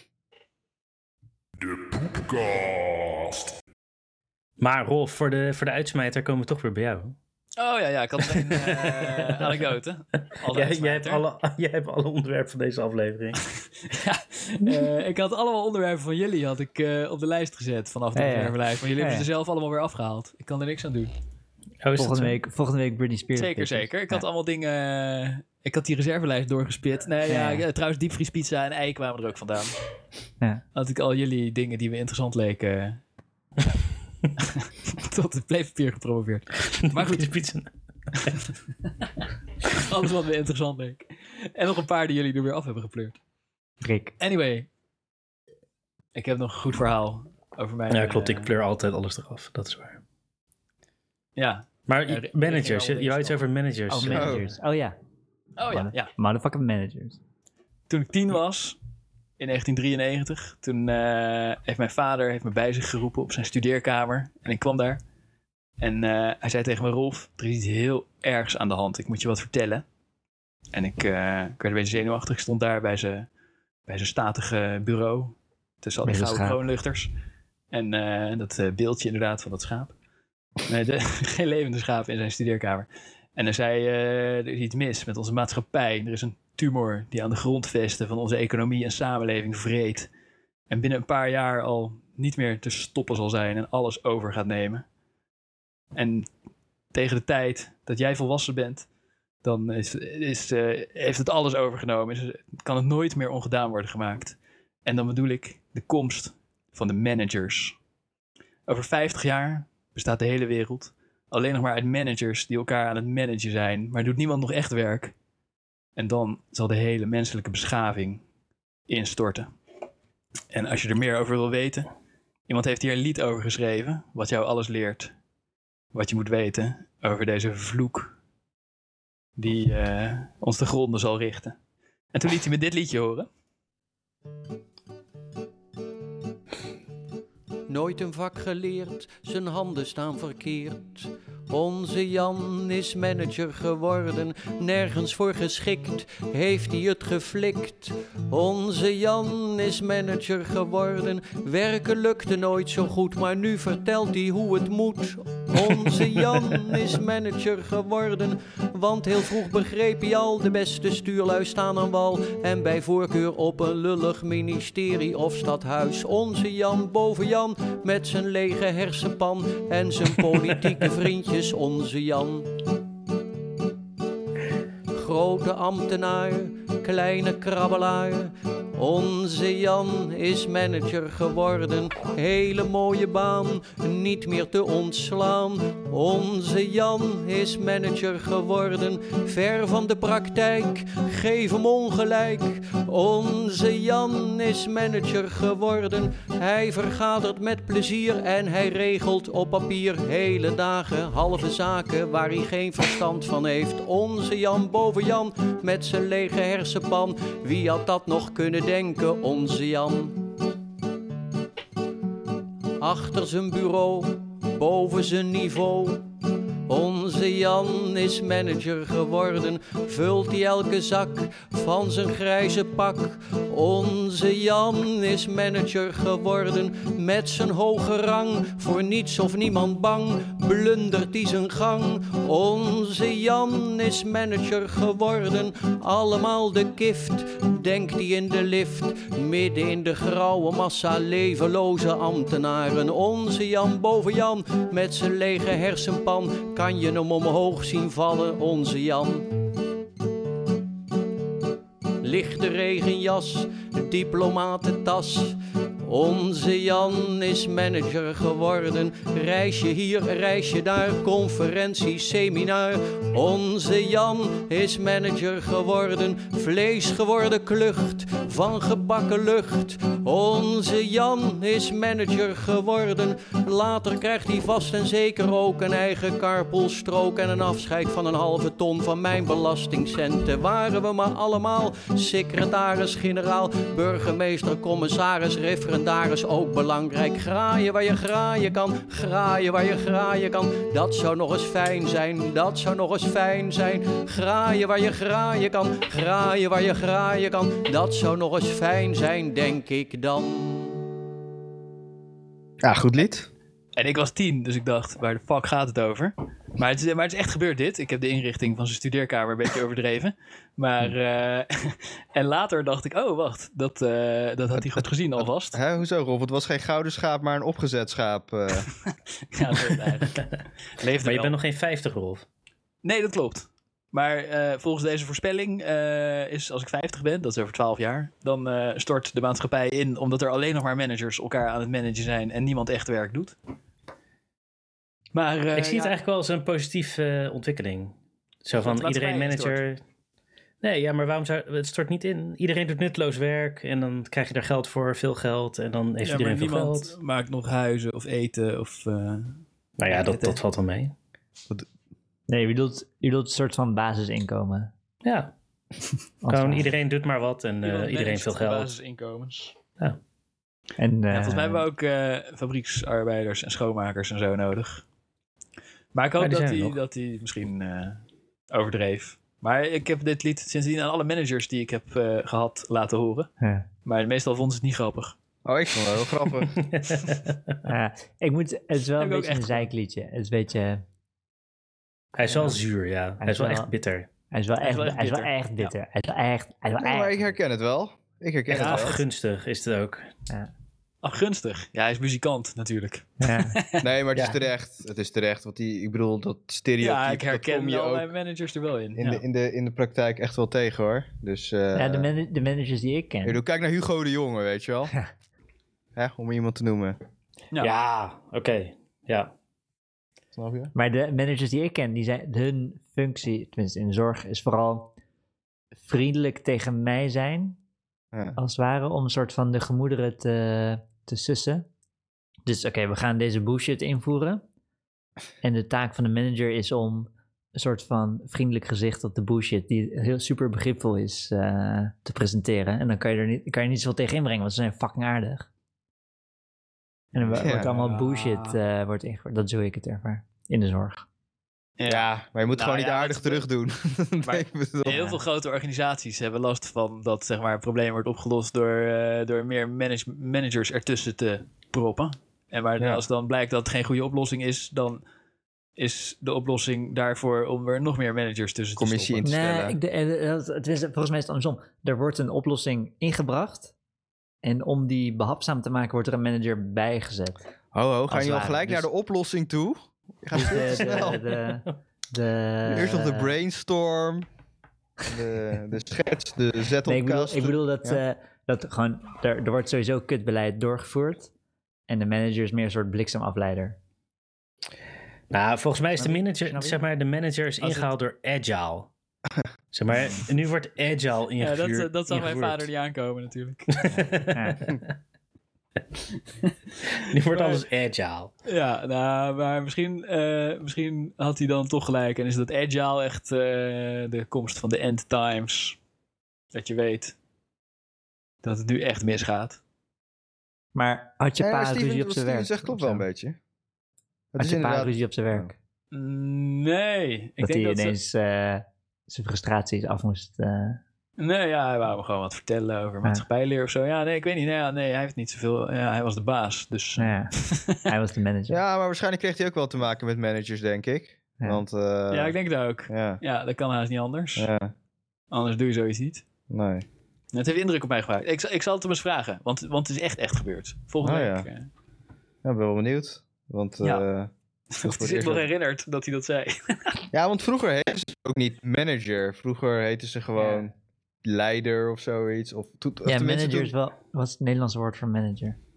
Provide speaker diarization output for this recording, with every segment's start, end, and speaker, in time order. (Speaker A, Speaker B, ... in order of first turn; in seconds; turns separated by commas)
Speaker A: 1.6-3.6, Speaker B: 4.6-7.1, Speaker C: 7.6-11.2, Speaker B: 8.3-9.6, Speaker B: 10.5-13.4, Speaker C: 13.8-21.1, Speaker D: 18.1-19.2, Speaker B: 21.8-22.4, Speaker D: 21.9-24.2, Speaker C: 23.3-29.7, Speaker D: 27.3-27.6, Speaker C: 30.7-33.0, Speaker C: 34.4-37.3, Speaker B: 36.9-37.7, Speaker C: 39.7-43.2, Speaker D: 43.8-44.1, Speaker C: 44.2-44.7, Speaker C: 46.1-48.5, Speaker B: 47.9-50.0, Speaker C: 51.4-53.4, Speaker B: 51.9-54.4, Speaker D: 53.9-54.9, Speaker E: 54.1-54.4, Speaker C: 55.6-56.1, Speaker D: 55.7-57.2, Speaker C: 57.9-58.8, Speaker C: 59.4-65.0, Speaker C: 65.8-69.8, Speaker C: 70.7-73.3, Speaker C: 73.9-77.1, Speaker D: 76.0-76.6, Speaker C: 77.7-79.9, Speaker C: 80.7-90.1, Speaker C: 90.7-94.8, Speaker C: 95.9-96.3, Speaker C: 96.9-98.9, Speaker C: 99.4-107.8, Speaker C: 108.7-115.1, Speaker C: 116.0-118.2, Speaker C: 118.9-119.5, Speaker C: 120.5-121.9, Speaker C: 122.5-125.1, Speaker C: 125.9-128.1, Speaker C: 129.4-131.5, Speaker C: 132.1-133.3, Speaker F: 137.7-172.5, Speaker F: 174.9-210.2, Speaker F: 212.8-216.0, Speaker F: 216.7-249.3, Speaker F: 252.0-300.8, Speaker E: 302.6-303.3, Speaker C: 303.7-315.6, Speaker E: 314.5-318.7, Speaker C: 319.3-320.2, Speaker C: 320.8-321.3, Speaker B: 321.0-322.2, Speaker C: 322.8-333.4, Speaker C: 335.1-335.9, Speaker B: 335.5-339.8, Speaker C: 338.6-339.6, Speaker B: 340.6-346.9, Speaker C: 346.0-350.4, Speaker B: 349.8-350.9, Speaker D: 352.3-354.7, Speaker B: 355.0-355.3, Speaker D: 356.2-356.7, Speaker B: 356.3-358.7, Speaker C: 357.6-359.5, Speaker D: 360.8-361.6, Speaker C: 361.1-364.8, Speaker C: 365.9-373.3, Speaker B: 366.2-366.8, Speaker D: 373.4-373.7, Speaker C: 373.8-375.1, Speaker E: 375.4-376.5, Speaker B: 376.6-377.6, Speaker D: 377.7-380.8, Speaker C: 379.0-379.7, Speaker B: 382.1-384.1, Speaker D: 383.2-383.7, Speaker D: 384.3-387.3, Speaker C: 384.6-385.7, Speaker E: 386.8-389.0, Speaker B: 388.5-390.1, Speaker C: 388.5-388.9, Speaker C: 391.0-393.8, Speaker D: 393.2-393.6, Speaker E: 393.8-398.1, Speaker C: 396.8-399.2, Speaker E: 398.9-402.1, Speaker D: 401.7-403.4, Speaker E: 403.2-404.9, Speaker E: 405.9-407.0, Speaker C: 407.5-407.8, Speaker B: 407.6-409.3, Speaker E: 410.4-410.7, Speaker D: 410.7-414.9, Speaker D: 415.8-417.6, Speaker D: 418.4-421.6, Speaker D: 422.4-424.4, Speaker D: 425.4-435.5, Speaker D: 437.1-441.1, Speaker E: 437.2-437.7, Speaker C: 437.4-438.6, Speaker C: 441.8-443.5, Speaker E: 441.8-445.0, Speaker C: 444.2-455.0, Speaker D: 444.9-445.2, Speaker E: 452.8-453.0, Speaker C: 455.8-459.3, Speaker E: 458.8-459.8, Speaker D: 459.2-463.7, Speaker D: 464.4-467.4, Speaker E: 467.7-471.3, Speaker D: 468.1-468.9, Speaker D: 470.3-473.3, Speaker E: 472.6-474.3, Speaker E: 475.0-478.0, Speaker D: 476.9-481.3, Speaker D: 481.9-483.8, Speaker B: 485.3-488.9, Speaker D: 486.0-486.8, Speaker C: 487.6-487.9, Speaker B: 489.7-492.7, Speaker C: 491.4-493.8, Speaker B: 493.8-494.8, Speaker D: 494.3-494.7, Speaker B: 496.9-498.3, Speaker C: 497.2-497.6, Speaker C: 498.4-505.8, Speaker C: 506.5-507.1, Speaker C: 508.4-509.6, Speaker D: 510.7-513.0, Speaker E: 511.4-513.4, Speaker E: 514.3-515.5, Speaker D: 514.4-515.5, Speaker C: 515.9-517.9, Speaker D: 517.4-520.8, Speaker C: 521.2-527.8, Speaker D: 527.0-528.6, Speaker E: 528.5-532.3, Speaker C: 532.1-534.5, Speaker E: 532.9-533.2, Speaker E: 534.4-534.7, Speaker C: 535.3-536.2, Speaker E: 536.5-536.9, Speaker C: 537.3-541.7, Speaker E: 541.0-541.5, Speaker E: 542.4-544.3, Speaker C: 544.7-547.0, Speaker E: 544.8-545.5, Speaker E: 547.1-550.7, Speaker E: 551.2-553.7, Speaker D: 553.0-555.6